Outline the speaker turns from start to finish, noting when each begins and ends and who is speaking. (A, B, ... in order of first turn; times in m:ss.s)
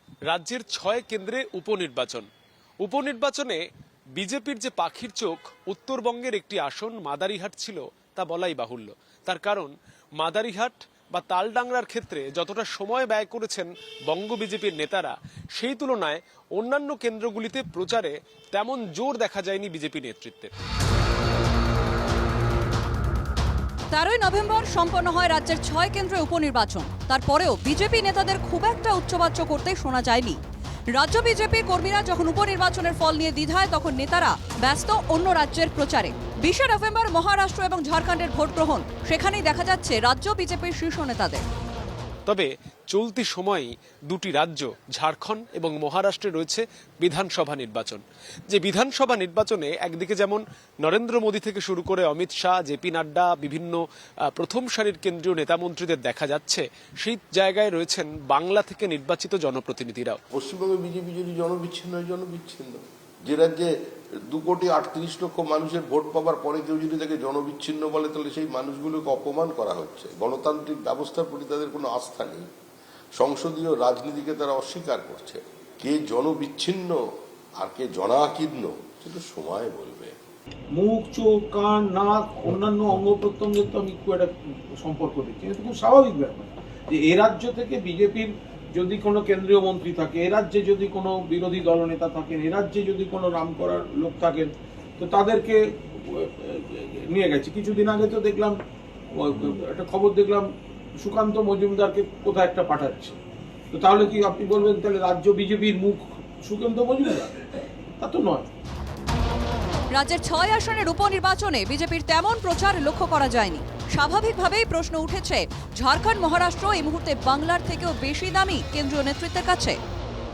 0:00.3-0:02.3 A
0:02.8-0:03.6 A
0:04.2-0:20.5 A
0:23.9-0:30.4 B
0:30.9-0:41.4 B
0:42.3-1:00.2 A
1:00.3-1:03.7 C
1:04.2-1:12.5 C
1:13.2-1:17.0 C
1:17.6-1:20.1 C
1:20.7-1:38.6 D
1:39.1-1:43.2 D
1:43.7-1:48.5 D
1:49.9-1:59.8 B